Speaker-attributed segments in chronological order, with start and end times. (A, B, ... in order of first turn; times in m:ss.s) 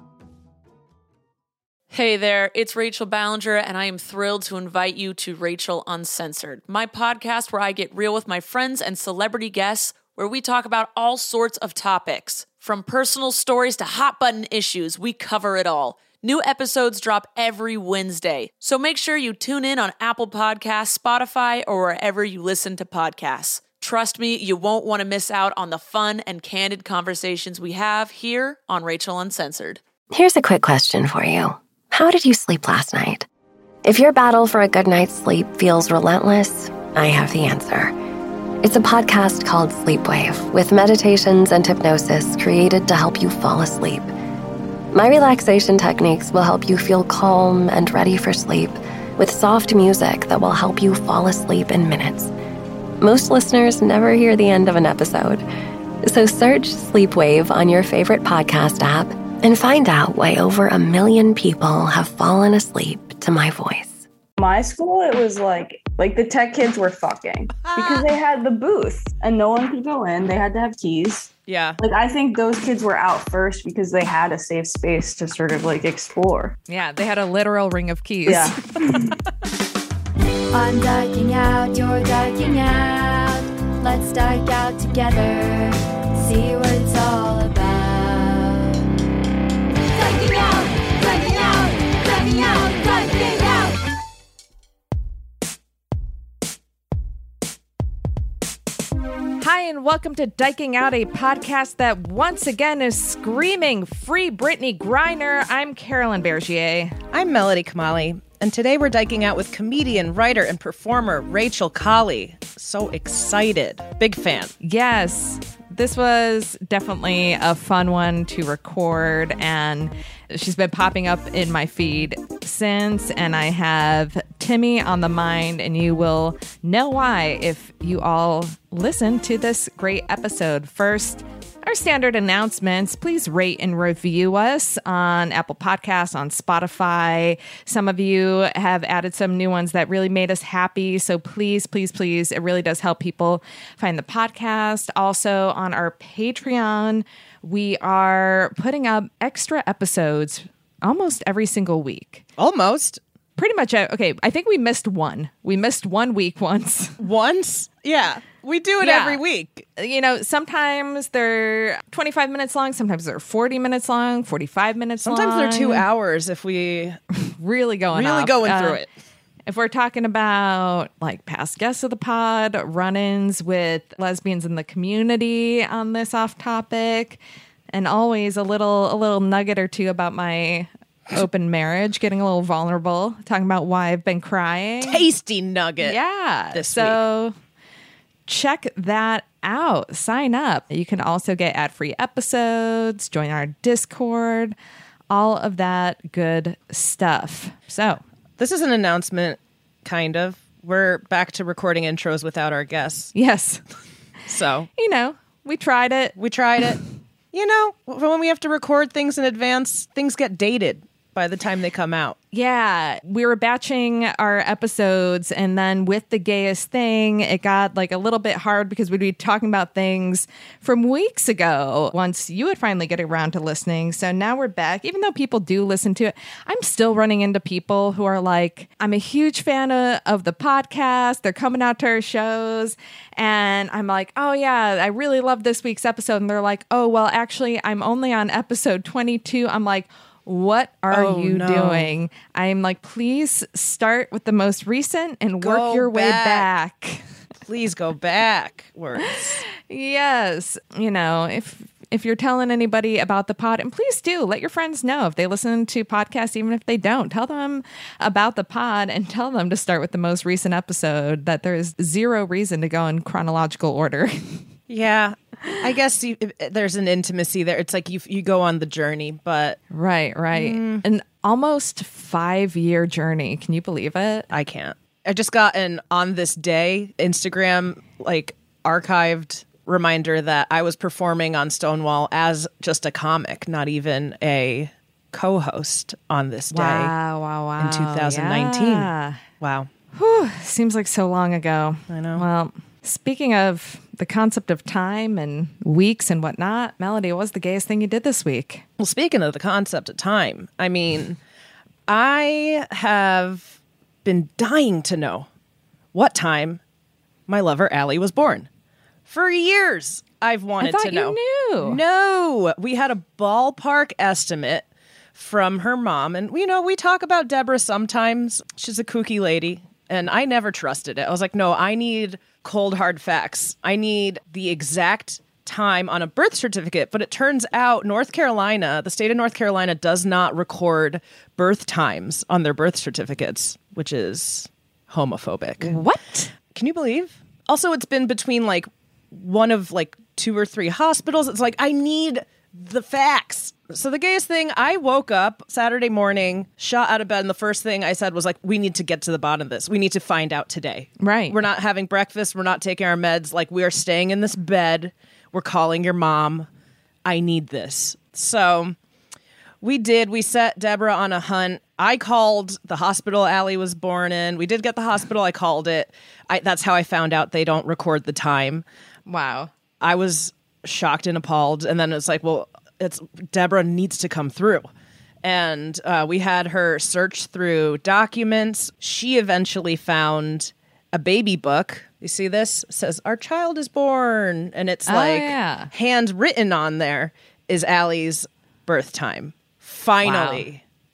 0:01.9-0:29.8 A
0:30.1-0:33.3 B
0:33.8-0:38.0 B
0:38.6-0:44.1 B
0:44.9-0:52.3 B
0:53.0-0:55.4 B
0:56.0-1:04.0 B
1:04.4-1:16.6 C
1:07.6-1:08.0 D
1:11.5-1:11.8 D
1:16.7-1:19.0 E
1:18.2-1:19.2 C
1:20.5-1:28.8 F
1:29.9-1:33.8 F
1:39.4-1:46.9 E
1:47.1-1:54.5 D
1:54.6-2:32.2 E
2:32.4-2:33.0 D
2:33.4-2:37.0 E
2:37.0-2:39.7 D
2:38.8-2:39.2 E
2:39.8-2:45.8 E
2:45.0-2:47.0 D
2:47.1-2:48.8 E
2:47.9-2:48.9 D
2:49.5-2:57.2 E
2:57.7-3:05.0 E
3:04.8-3:06.0 D
3:05.8-3:07.3 E
3:06.5-3:07.0 D
3:08.3-3:14.5 E
3:15.1-3:18.0 E
3:18.4-3:23.1 D
3:23.1-3:23.6 E
3:24.3-3:24.7 D
3:24.8-3:26.2 E
3:26.2-3:26.8 D
3:27.3-3:32.2 D
3:32.3-4:07.0 E
4:00.9-4:01.9 D
4:05.4-4:06.5 D
4:07.5-4:09.4 D
4:09.7-4:24.4 E
4:24.7-4:29.6 D
4:29.7-4:34.3 E
4:30.3-4:30.8 D
4:34.3-4:46.9 D
4:46.5-4:49.2 E
4:47.6-4:48.9 D
4:49.4-4:49.7 D
4:49.9-4:58.6 E
4:51.9-4:52.2 D
4:58.8-5:01.2 D
5:01.9-5:05.3 D
5:05.9-5:06.6 D
5:07.3-5:08.5 D
5:09.1-5:35.8 D
5:10.6-5:11.8 E
5:35.6-5:36.3 E
5:36.5-5:56.5 D
5:51.0-5:51.4 E
5:57.0-5:58.7 D
5:59.6-6:08.6 D
6:09.1-6:09.5 E
6:09.8-6:14.7 D
6:15.2-6:30.6 D
6:24.9-6:25.7 E
6:30.0-6:30.4 E